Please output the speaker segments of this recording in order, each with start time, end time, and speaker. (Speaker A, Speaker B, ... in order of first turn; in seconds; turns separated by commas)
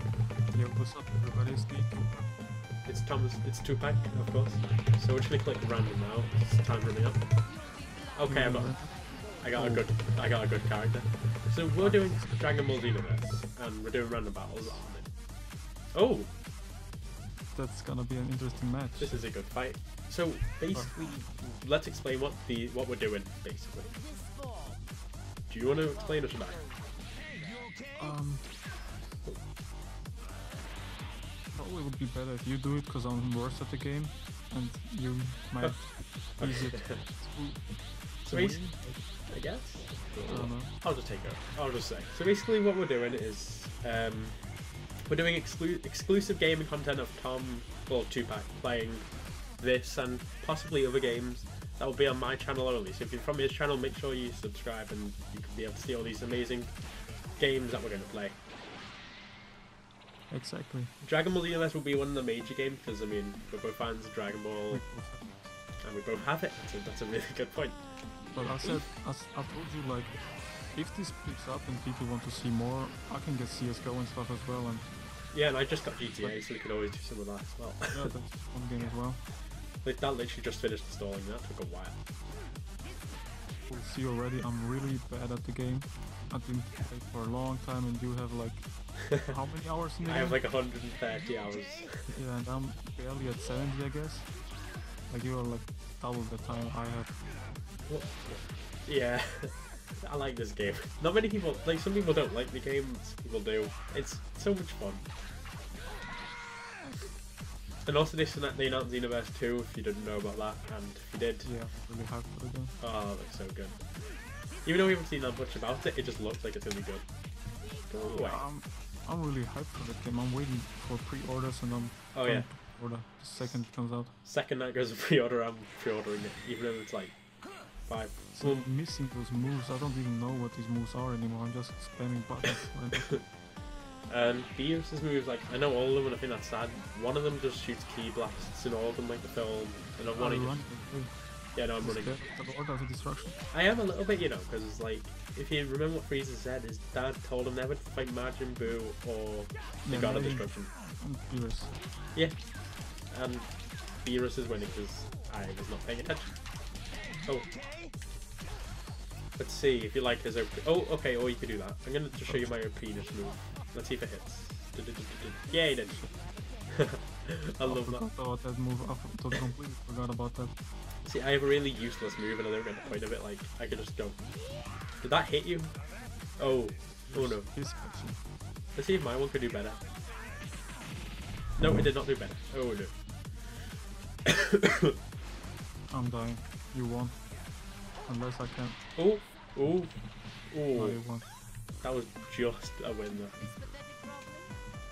Speaker A: 0.5-2.3, Speaker B: 2.8-16.3, Speaker A: 8.2-9.9, Speaker A: 11.8-12.2, Speaker A: 17.5-19.2, Speaker B: 19.0-24.0, Speaker B: 25.5-26.7, Speaker A: 27.9-28.6, Speaker A: 31.5-39.0, Speaker B: 35.6-37.1, Speaker B: 38.2-38.7, Speaker B: 39.2-58.4, Speaker A: 40.2-40.8, Speaker A: 60.3-60.9, Speaker B: 61.0-64.9, Speaker A: 64.7-65.5, Speaker B: 65.8-68.4, Speaker A: 68.3-75.0, Speaker B: 75.3-78.1, Speaker A: 77.9-79.2, Speaker B: 79.7-82.0, Speaker A: 83.7-90.4, Speaker B: 90.0-92.2, Speaker A: 92.1-94.5, Speaker A: 95.1-97.3, Speaker B: 97.8-105.0, Speaker B: 107.8-111.5, Speaker A: 111.4-112.8, Speaker B: 112.8-117.1, Speaker B: 117.7-118.4, Speaker A: 118.2-124.1, Speaker B: 122.1-122.8, Speaker B: 123.3-128.7, Speaker A: 128.3-133.2, Speaker B: 134.1-140.7, Speaker A: 140.1-143.4, Speaker B: 141.5-142.1, Speaker B: 143.5-150.7, Speaker A: 149.8-151.8, Speaker B: 152.1-156.6, Speaker B: 157.2-157.5, Speaker B: 159.4-168.0, Speaker A: 162.1-162.5, Speaker A: 167.6-170.5, Speaker B: 171.0-177.5, Speaker A: 177.1-178.2, Speaker B: 178.7-179.8, Speaker B: 181.6-183.2, Speaker A: 185.9-188.8, Speaker B: 188.9-191.0, Speaker A: 190.7-191.3, Speaker B: 191.8-193.6